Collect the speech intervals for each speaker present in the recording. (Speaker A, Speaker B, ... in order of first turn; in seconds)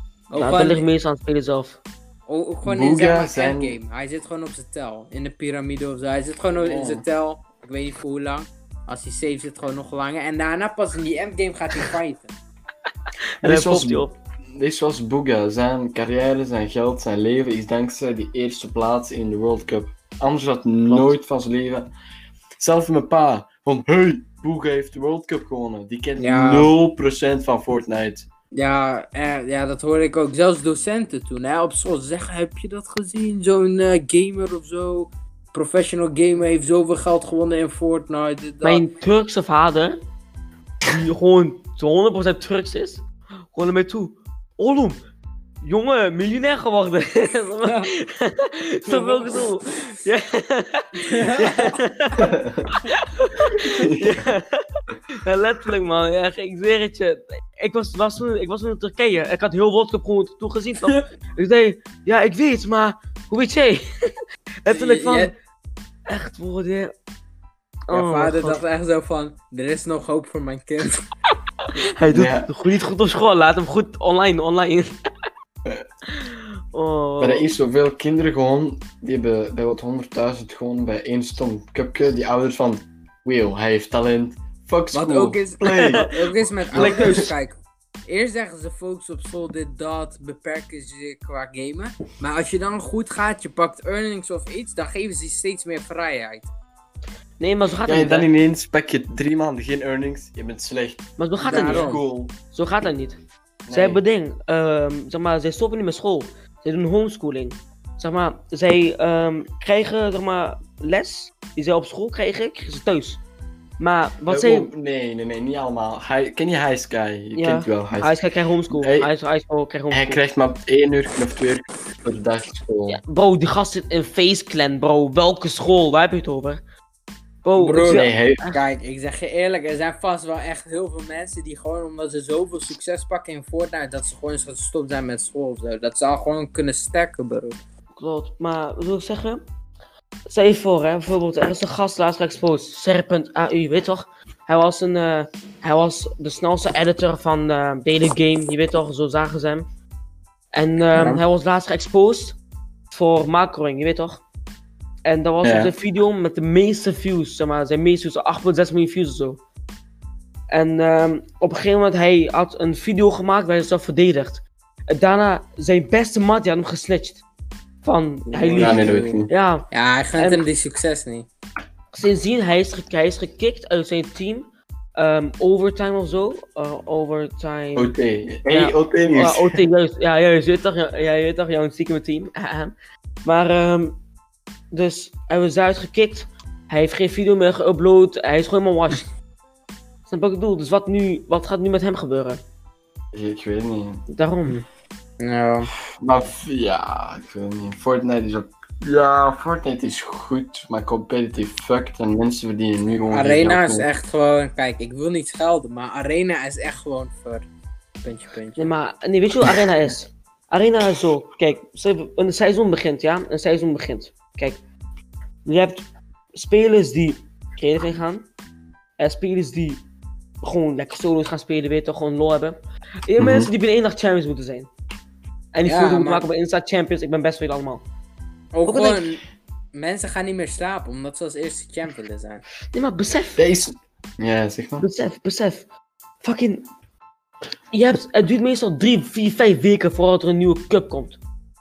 Speaker A: 0.3-0.8, 2.3-12.3, 26.2-26.7, 28.5-38.9, 47.6-47.9, 48.9-49.4, 51.1-51.8, 64.7-65.3, 67.9-71.0, 84.9-87.5, 88.1-96.5, 101.4-102.0, 127.6-137.6, 150.9-151.2, 168.3-171.3, 195.2-195.7, 203.1-207.4, 208.0-208.7, 225.6-226.2, 228.5-229.2, 229.7-232.4
Speaker B: 0.4-1.8, 13.4-14.2, 20.9-21.2, 38.6-40.0, 40.9-45.0, 45.6-64.1, 64.6-65.3, 66.1-66.9, 67.9-68.6, 72.0-74.9, 76.1-77.5, 86.8-87.2, 97.4-98.3, 101.2-101.9, 102.5-103.2, 103.7-113.2, 113.8-114.7, 117.3-120.2, 122.9-126.6, 127.4-128.6, 138.0-139.4, 140.3-149.7, 150.5-152.4, 152.9-154.2, 155.0-159.4, 160.5-167.2, 167.8-169.7, 171.9-177.9, 178.5-182.7, 183.2-183.9, 184.7-189.1, 190.1-192.4, 194.1-194.6, 208.6-214.6, 215.4-215.8, 216.3-218.2, 219.0-219.8, 220.4-224.7, 225.5-227.8, 228.7-229.0, 232.7-233.4, 234.8-235.7, 236.2-236.7, 237.7-241.2
Speaker C: 2.6-3.8, 6.6-7.0, 13.4-21.9, 22.6-28.3, 52.2-52.6, 53.7-54.2, 72.1-72.5, 77.2-86.2, 86.7-87.3, 97.8-102.3, 103.7-104.0, 114.3-118.1, 118.7-119.1, 119.9-123.0, 127.9-128.4, 155.4-155.7, 168.6-169.3, 177.8-179.6, 193.1-194.0, 195.8-203.9, 223.2-223.5, 233.4-234.8